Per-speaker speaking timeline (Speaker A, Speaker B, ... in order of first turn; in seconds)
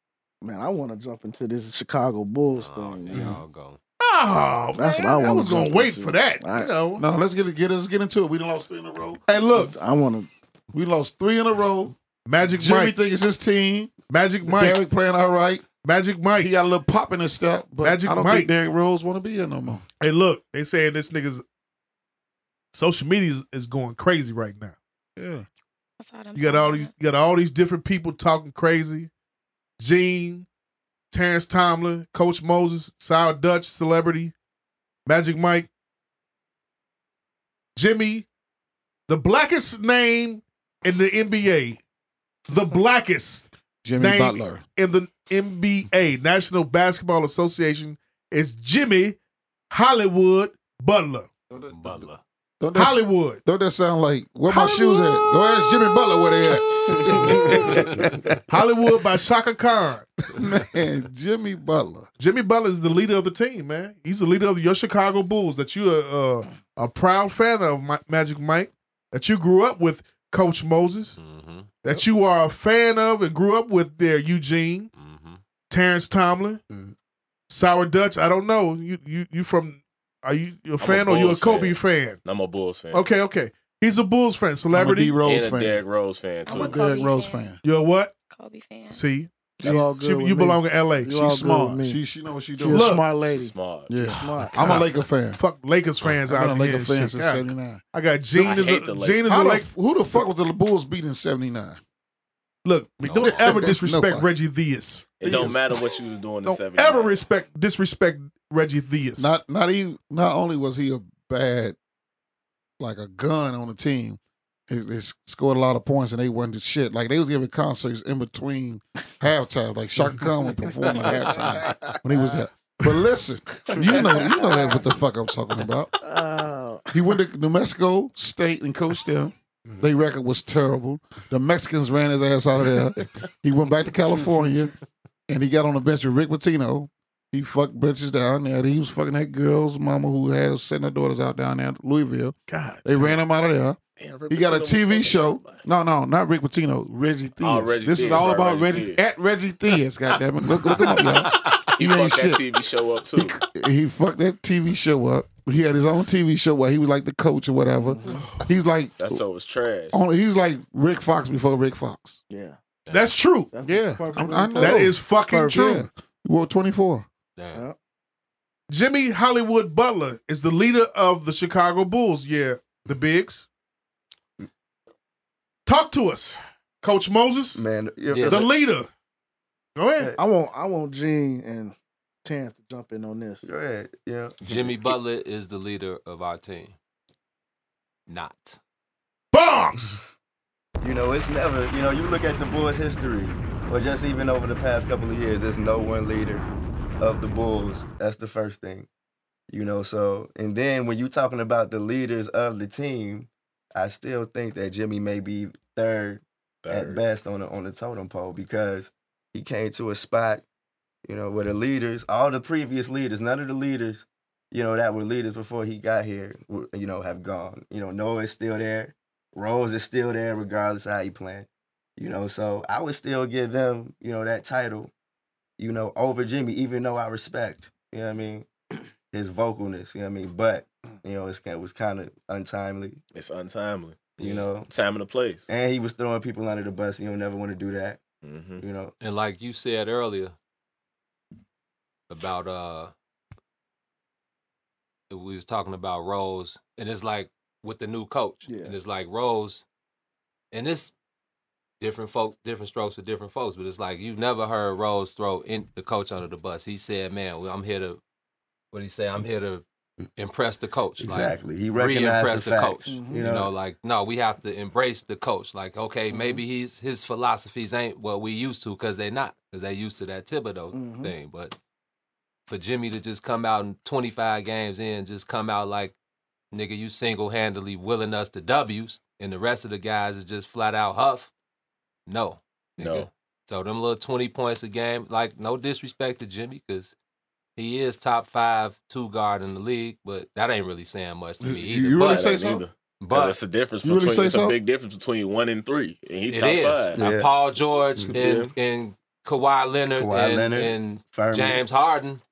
Speaker A: 0.4-3.4, 4.7-6.7, 9.4-10.3, 89.6-92.0, 92.6-94.8, 123.8-124.3, 126.0-126.9, 162.3-162.6, 163.5-165.7, 180.2-183.5, 248.5-248.7, 262.9-263.2, 266.1-266.4, 270.7-271.1
Speaker B: 2.5-3.8, 51.7-52.2, 71.2-71.7, 75.0-75.4, 103.0-103.7, 167.4-167.6, 178.1-178.4, 184.4-186.7, 188.1-188.6, 239.0-240.3, 242.1-242.9, 245.1-249.6, 250.5-250.9, 251.8-258.0, 258.7-259.6, 260.2-271.6, 272.5-275.9, 276.5-281.3, 282.1-286.9, 287.6-292.3, 293.0-293.4, 296.3-302.2
Speaker C: 4.0-7.0, 9.3-9.7, 12.2-12.9, 14.1-14.8, 15.8-16.5, 17.8-18.5, 20.0-21.4, 22.7-24.8, 26.3-29.1, 29.8-30.5, 31.1-34.3, 35.0-35.7, 37.8-38.3, 39.1-41.8, 42.5-49.2, 49.7-51.3, 52.7-53.4, 54.5-55.7, 56.6-57.9, 58.5-60.3, 62.2-71.2, 71.8-74.9, 75.7-76.6, 77.5-82.2, 82.9-85.2, 87.6-88.1, 88.9-91.1, 92.7-93.0, 95.4-99.7, 102.6-109.3, 142.5-143.1, 162.9-163.5, 164.6-165.8, 168.7-173.5, 175.7-177.6, 178.2-178.9, 179.8-180.1, 189.3-190.0
Speaker D: 7.0-9.2, 10.7-15.7, 16.4-19.8, 25.2-25.4, 43.8-44.6, 51.5-52.0, 52.6-58.4, 60.3-62.1, 84.7-85.8, 86.5-87.6, 91.1-93.0, 93.9-95.4, 96.2-97.8, 99.3-101.8, 103.1-104.3, 105.2-105.6, 109.2-111.8, 112.8-125.9, 126.9-134.7, 135.3-152.4, 153.2-159.2, 159.9-162.2, 163.6-167.1, 291.4-292.6, 293.8-294.6
Speaker E: 26.0-26.9, 86.4-87.5, 88.3-89.0
Speaker F: 76.7-76.9, 177.6-178.5, 183.4-184.4, 190.8-196.4, 197.0-198.9, 199.5-210.4, 211.1-224.9, 225.6-228.5, 229.1-233.0, 234.2-234.7, 235.5-238.0, 238.6-238.9, 261.0-263.5, 296.9-297.3, 299.9-301.6
Speaker G: 80.8-83.1, 85.2-86.8, 93.2-94.1, 98.3-99.3, 105.2-107.3, 144.0-145.6, 147.4-149.0, 151.5-153.4, 159.0-160.0, 162.9-163.1, 184.5-184.7, 206.6-207.0, 233.1-235.4, 238.2-238.6, 282.8-283.1, 292.0-297.0, 298.1-298.5